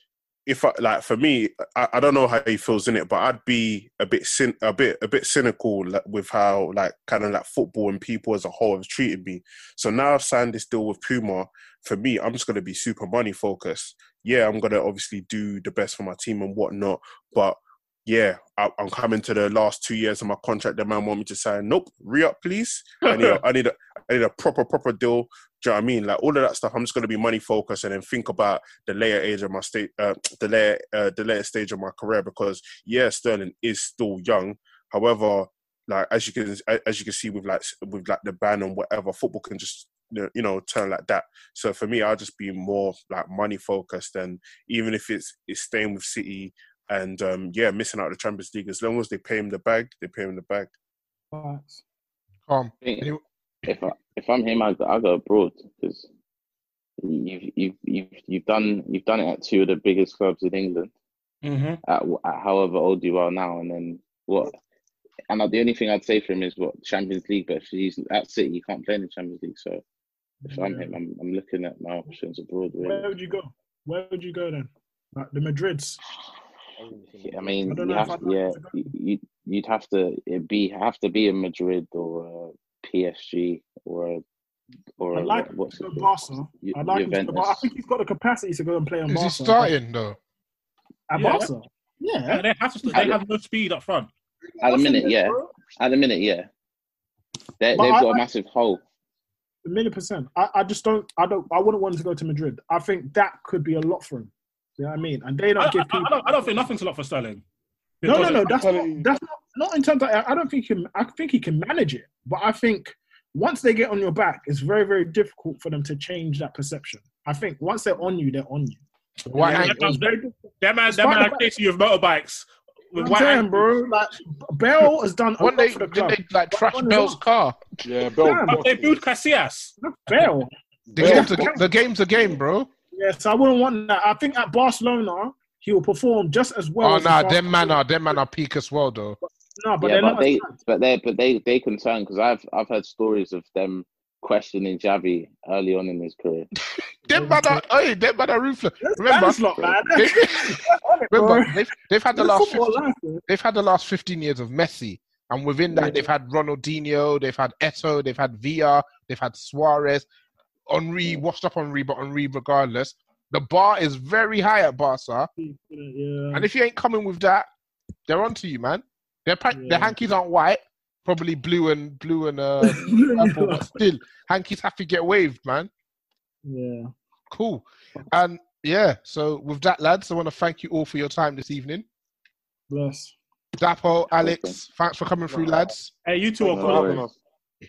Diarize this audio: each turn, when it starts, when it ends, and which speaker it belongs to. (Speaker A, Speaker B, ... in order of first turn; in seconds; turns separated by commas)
Speaker A: 0.5-50.7, Speaker B: 51.3-51.8, Speaker C: 52.5-53.2, Speaker D: 52.8-53.1, Speaker D: 53.6-56.1, Speaker D: 57.0-60.9, Speaker E: 61.4-61.8, Speaker D: 61.9-64.5, Speaker D: 65.3-69.8, Speaker B: 70.4-71.0, Speaker D: 70.5-73.1, Speaker B: 72.8-76.0, Speaker D: 77.2-84.2, Speaker B: 77.6-78.8, Speaker D: 85.0-87.7, Speaker B: 85.1-89.7, Speaker C: 89.1-90.2, Speaker B: 91.1-93.1, Speaker E: 91.2-91.5, Speaker E: 92.3-94.1, Speaker B: 94.6-95.5, Speaker D: 94.6-96.5, Speaker D: 97.6-98.8, Speaker B: 97.7-98.2, Speaker B: 99.6-106.5, Speaker E: 105.6-107.4, Speaker E: 108.0-108.5, Speaker B: 108.0-118.8, Speaker F: 108.1-109.1, Speaker C: 119.3-120.0, Speaker B: 119.3-120.3, Speaker E: 119.4-123.7, Speaker B: 120.9-121.4, Speaker B: 123.0-127.2, Speaker C: 125.4-127.8, Speaker F: 127.8-129.0, Speaker B: 128.1-128.6, Speaker E: 128.5-130.3, Speaker B: 129.8-131.8, Speaker F: 130.9-131.5, Speaker C: 131.0-132.7, Speaker B: 132.9-138.2, Speaker C: 136.8-139.2, Speaker B: 139.6-140.6, Speaker D: 139.8-146.5, Speaker C: 147.1-160.1, Speaker B: 147.1-147.6, Speaker B: 148.8-153.2, Speaker B: 155.7-156.1, Speaker C: 160.7-165.3, Speaker B: 165.4-166.5, Speaker C: 166.3-167.5, Speaker C: 168.1-175.7, Speaker B: 169.5-170.0, Speaker B: 172.6-173.8, Speaker B: 176.4-176.9, Speaker C: 177.3-181.8, Speaker B: 182.7-183.2, Speaker C: 183.6-185.9, Speaker D: 184.1-184.6, Speaker E: 186.0-187.1, Speaker F: 186.4-187.1, Speaker D: 186.6-186.9